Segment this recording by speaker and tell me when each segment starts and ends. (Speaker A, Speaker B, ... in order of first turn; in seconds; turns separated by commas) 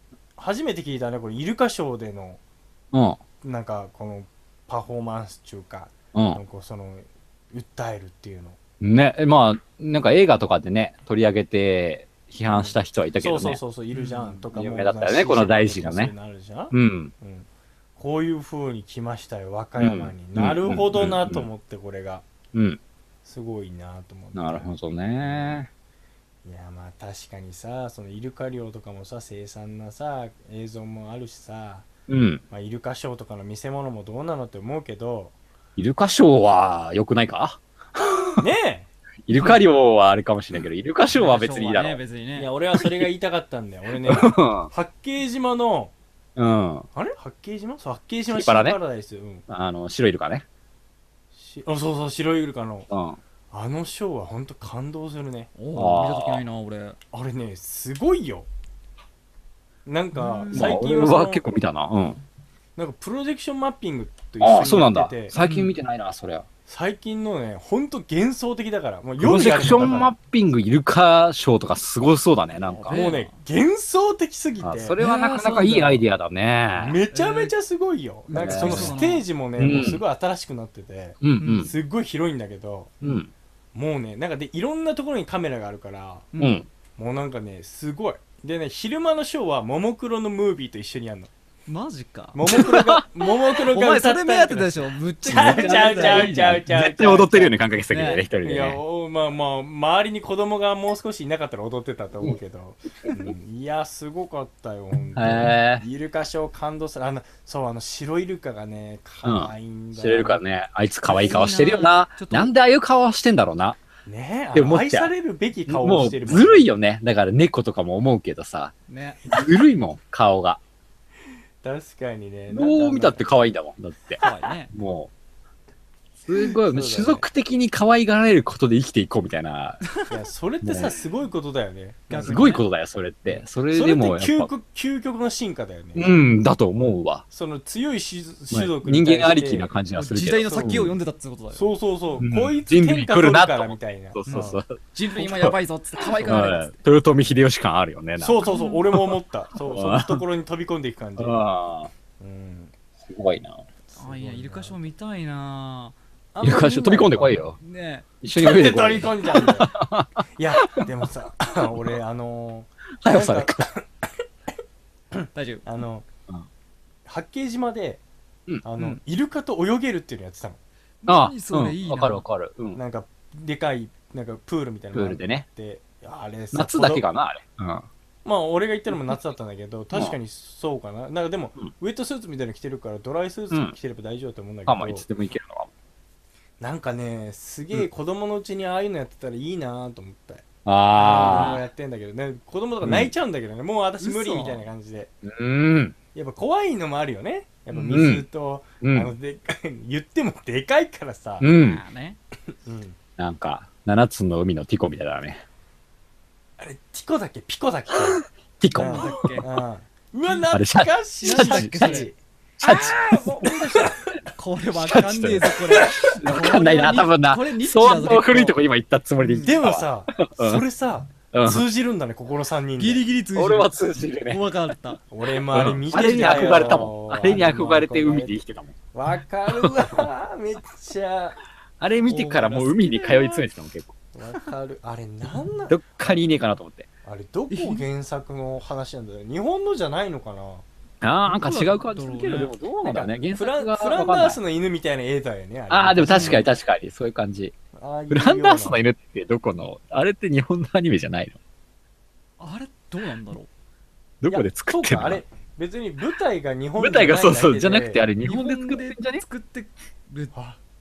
Speaker A: 0.4-2.4, Speaker B: 2.9-3.2, Speaker A: 3.4-8.6, Speaker B: 6.1-6.4, Speaker B: 8.8-13.6, Speaker A: 12.5-22.2, Speaker C: 13.9-14.4, Speaker B: 14.5-16.1, Speaker B: 16.7-17.1, Speaker B: 19.8-21.5, Speaker B: 22.5-22.8, Speaker A: 23.2-24.7, Speaker B: 24.3-25.7, Speaker A: 25.2-25.6, Speaker A: 26.4-31.9, Speaker B: 32.1-32.4, Speaker A: 32.5-35.3, Speaker B: 35.8-38.4, Speaker A: 38.4-38.9, Speaker B: 39.3-42.0, Speaker C: 41.1-42.5, Speaker A: 42.4-45.9, Speaker B: 42.8-43.0, Speaker B: 44.0-44.7, Speaker B: 46.4-46.9, Speaker A: 46.9-49.4, Speaker B: 48.3-48.8, Speaker B: 49.5-50.4, Speaker A: 51.3-52.9, Speaker B: 52.9-53.2, Speaker A: 53.5-55.5, Speaker C: 55.5-57.0, Speaker B: 55.7-56.4, Speaker A: 57.1-58.5, Speaker A: 59.9-61.4, Speaker C: 60.1-60.7, Speaker B: 60.5-62.2, Speaker A: 62.8-65.3, Speaker B: 64.4-66.5, Speaker C: 65.3-65.8, Speaker A: 66.7-70.1, Speaker B: 69.2-73.0, Speaker C: 72.6-73.3, Speaker A: 72.9-75.0, Speaker B: 74.6-77.0, Speaker C: 75.0-76.0, Speaker A: 76.8-82.9, Speaker C: 77.1-77.5, Speaker C: 78.3-79.2, Speaker B: 78.3-79.0, Speaker B: 79.6-80.0, Speaker B: 81.2-81.7, Speaker C: 81.4-81.7, Speaker B: 83.0-83.3, Speaker A: 83.7-86.3, Speaker C: 86.3-86.6, Speaker B: 86.4-86.7, Speaker A: 87.0-91.3, Speaker C: 91.7-92.4, Speaker A: 92.3-97.5, Speaker B: 92.5-93.0, Speaker C: 93.6-96.4, Speaker B: 95.2-98.8, Speaker C: 97.9-98.2, Speaker A: 98.4-110.4, Speaker B: 105.1-105.8, Speaker B: 109.2-113.8, Speaker C: 111.1-112.5, Speaker A: 111.1-111.4, Speaker A: 114.0-116.7, Speaker B: 114.5-115.1, Speaker B: 115.7-118.7, Speaker C: 118.9-119.2, Speaker B: 119.3-120.6, Speaker A: 121.6-123.2, Speaker B: 122.5-125.1, Speaker C: 124.2-124.7, Speaker B: 126.2-129.8, Speaker A: 126.3-127.2, Speaker A: 130.1-132.5, Speaker B: 130.6-130.9, Speaker C: 132.1-132.6, Speaker B: 132.2-134.5, Speaker A: 133.3-136.1, Speaker B: 135.9-137.2, Speaker A: 137.3-139.7, Speaker B: 138.5-140.9, Speaker C: 139.9-141.7, Speaker A: 140.4-140.9, Speaker A: 141.5-144.6, Speaker B: 142.2-145.6, Speaker C: 144.3-146.8, Speaker B: 146.2-149.1, Speaker A: 148.2-151.4, Speaker C: 148.4-148.8, Speaker B: 149.6-150.2, Speaker B: 151.2-151.9, Speaker A: 152.2-152.7, Speaker B: 153.0-153.6, Speaker A: 153.9-154.8, Speaker C: 153.9-155.9, Speaker A: 156.3-157.4, Speaker B: 156.4-157.6, Speaker C: 157.6-158.1, Speaker B: 158.2-160.9, Speaker A: 158.3-159.7, Speaker A: 160.3-164.1, Speaker B: 163.0-163.7, Speaker A: 165.1-166.1, Speaker C: 165.3-165.6, Speaker A: 167.1-168.0, Speaker A: 168.6-170.6, Speaker C: 171.0-172.2, Speaker B: 171.1-172.8, Speaker A: 172.7-177.0, Speaker B: 174.9-175.4, Speaker B: 176.5-177.9, Speaker A: 178.2-185.0, Speaker B: 184.7-185.7, Speaker A: 186.6-195.1, Speaker B: 190.6-191.6, Speaker C: 191.1-191.6, Speaker B: 192.8-193.1, Speaker C: 194.0-194.7, Speaker B: 195.2-195.9, Speaker A: 196.1-201.4, Speaker C: 197.7-198.1, Speaker B: 197.9-198.2, Speaker B: 198.8-199.1, Speaker B: 201.4-201.8, Speaker C: 201.4-202.2, Speaker A: 202.6-203.0, Speaker B: 203.2-205.4, Speaker A: 206.6-208.2, Speaker B: 208.6-209.4, Speaker A: 208.7-212.2, Speaker C: 208.8-209.6, Speaker B: 210.5-212.1, Speaker C: 211.2-218.6, Speaker B: 212.6-214.0, Speaker B: 214.7-220.6, Speaker C: 219.2-219.6, Speaker A: 219.4-223.0, Speaker B: 221.3-221.7, Speaker C: 222.8-225.0, Speaker B: 223.3-224.4, Speaker A: 225.1-228.4, Speaker B: 225.5-228.7, Speaker C: 226.2-226.4, Speaker A: 228.9-231.4, Speaker B: 229.6-229.9, Speaker B: 231.8-233.9, Speaker C: 232.1-233.4, Speaker A: 234.1-235.8, Speaker B: 235.7-236.9, Speaker A: 237.0-240.6, Speaker C: 237.5-237.8, Speaker B: 241.0-244.4, Speaker C: 241.2-242.5, Speaker A: 242.8-246.4, Speaker B: 245.7-247.5, Speaker C: 246.0-246.4, Speaker A: 247.7-248.8, Speaker B: 248.1-251.3, Speaker C: 252.4-253.5, Speaker B: 254.2-255.2, Speaker A: 254.3-258.1, Speaker B: 256.8-259.2, Speaker C: 258.2-260.3, Speaker A: 260.3-260.6